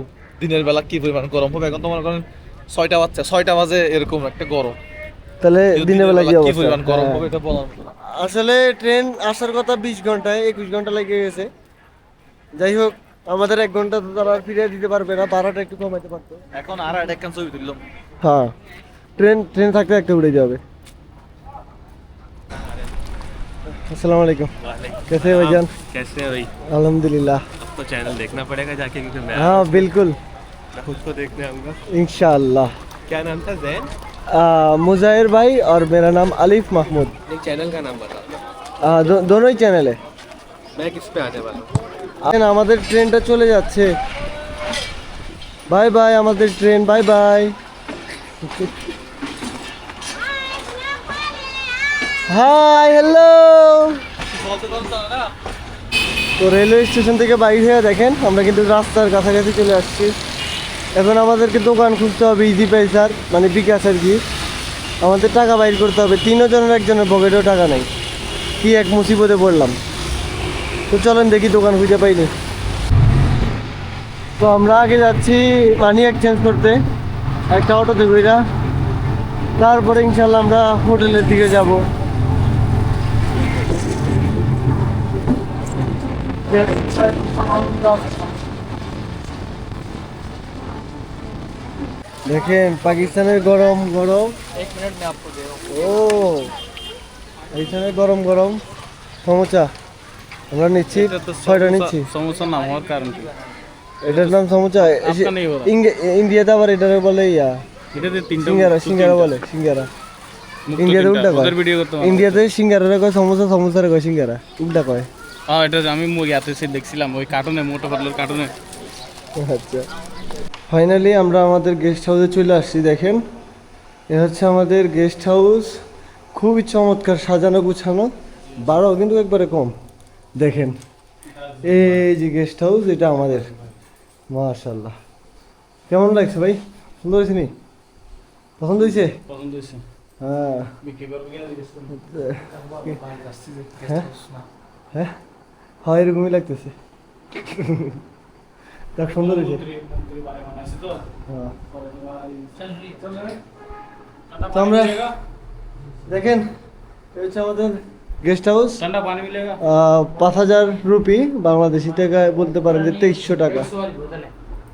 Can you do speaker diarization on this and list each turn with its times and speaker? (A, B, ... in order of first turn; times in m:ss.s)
0:00.4-0:04.8 A
0:05.4-0:07.2 B
0:05.7-0:08.0 A
0:08.0-0:11.5 B
0:12.6-0:16.4 B
0:16.5-0:17.8 A
0:18.2-0:18.5 B
0:19.2-0:20.6 B
0:23.7-0:24.5 B
0:24.6-0:26.5 C
0:25.1-0:25.7 B
0:26.7-0:27.4 B
0:27.6-0:29.9 C
0:29.3-0:30.2 B
0:30.8-0:31.8 C
0:31.9-0:32.7 B
0:33.1-0:33.9 C
0:34.3-0:37.2 B
0:37.3-0:38.4 C
0:38.8-0:40.0 B
0:40.8-0:41.7 C
0:42.2-0:43.9 B
0:45.7-0:47.6 B
0:48.4-0:48.7 B
0:52.3-0:54.0 B
0:54.3-0:55.3 A
0:56.4-1:00.2 B
1:00.9-1:04.2 B
1:05.0-1:07.9 B
1:08.6-1:09.8 B
1:10.9-1:12.3 B
1:14.4-1:16.8 B
1:17.5-1:18.4 B
1:19.6-1:21.8 B
1:26.5-1:28.2 B
1:32.3-1:34.4 B
1:34.7-1:35.6 C
1:35.7-1:36.5 B
1:37.5-1:38.6 B
1:39.2-1:39.7 B
1:40.5-1:42.1 B
1:40.9-1:43.3 D
1:44.0-1:47.6 B
1:44.0-1:45.7 D
1:47.9-1:49.4 D
1:48.4-1:49.9 B
1:50.7-1:52.4 D
1:50.8-1:55.1 B
1:55.5-1:58.5 D
1:59.4-1:59.9 B
2:00.7-2:03.2 B
2:04.1-2:05.8 B
2:06.3-2:09.7 B
2:10.4-2:10.8 B
2:11.4-2:11.9 D
2:11.6-2:13.5 B
2:14.3-2:15.0 B
2:15.9-2:17.5 B
2:18.6-2:19.2 B
2:19.3-2:19.8 D
2:20.2-2:20.7 B
2:20.8-2:22.0 D
2:22.0-2:23.0 B
2:22.7-2:24.4 A
2:23.8-2:24.1 B
2:25.8-2:26.8 B
2:27.3-2:28.0 B
2:29.0-2:29.6 B
2:29.1-2:31.1 D
2:31.3-2:31.6 B
2:31.7-2:33.4 D
2:34.3-2:35.2 D
2:34.5-2:35.1 B
2:36.1-2:36.5 B
2:37.1-2:38.8 B
2:38.8-2:39.6 D
2:39.6-2:43.7 B